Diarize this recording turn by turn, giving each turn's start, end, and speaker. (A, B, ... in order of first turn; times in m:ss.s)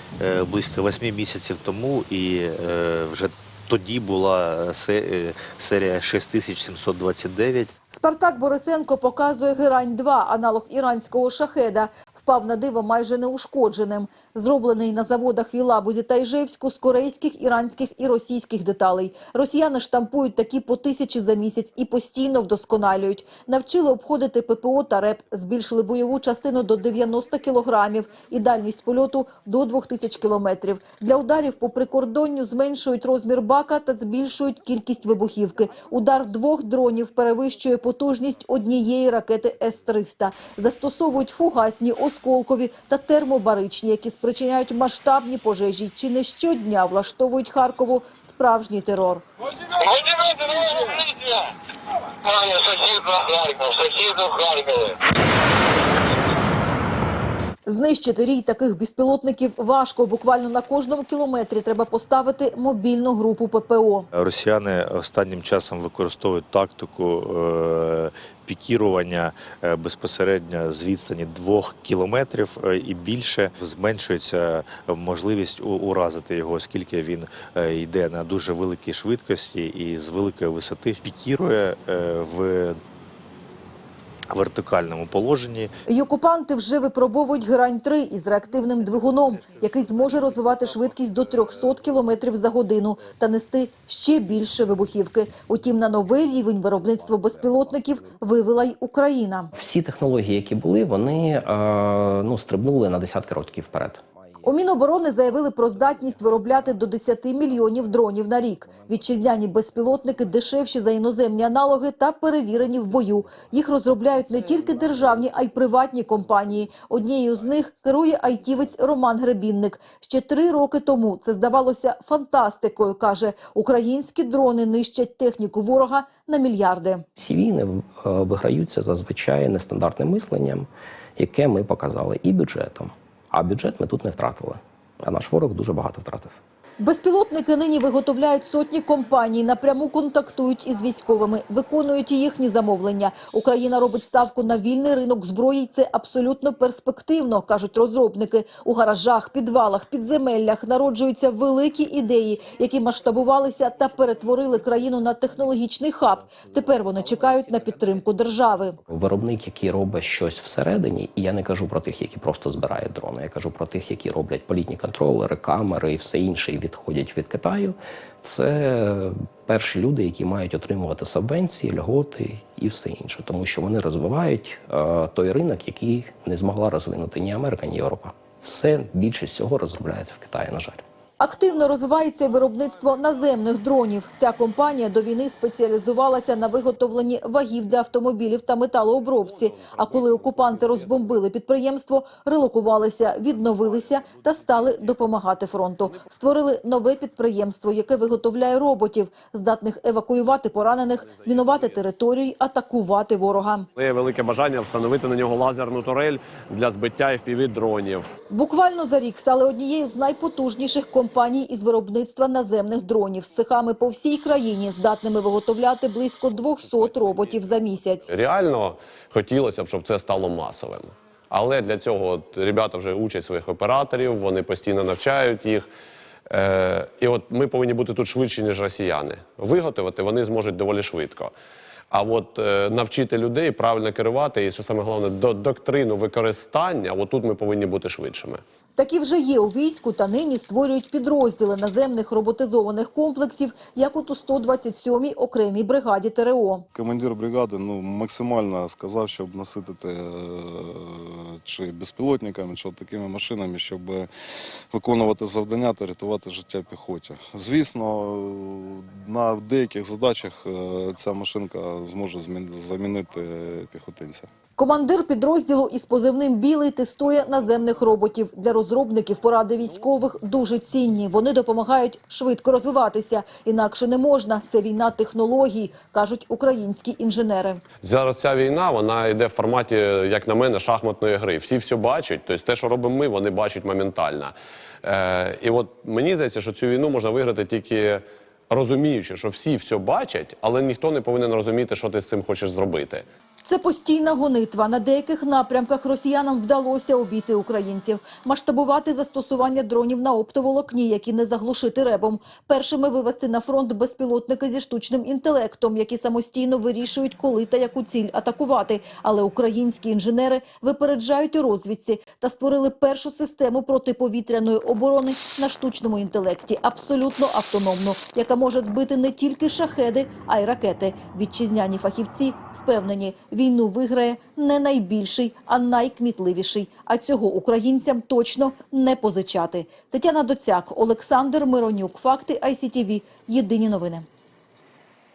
0:00.2-0:07.7 A
0:07.9-0:49.2 B
0:50.1-0:50.5 C
0:52.5-0:54.4 C
0:57.7-1:04.1 B
1:04.1-1:22.8 A
1:24.3-1:25.7 A
1:25.9-1:39.5 B
1:39.6-1:44.0 D
1:44.4-2:07.0 B
2:07.2-2:16.4 D
2:16.8-2:38.8 B
2:38.9-3:00.8 D
3:01.2-3:23.7 B
3:23.8-3:28.1 E
3:28.3-3:38.1 B
3:38.1-3:45.7 E
3:46.3-3:51.3 E
3:51.9-3:58.4 E
3:58.8-4:06.7 B
4:06.7-4:14.1 F
4:14.7-4:24.3 F
4:24.6-4:37.6 B
4:37.8-4:53.1 E
4:53.4-5:34.1 B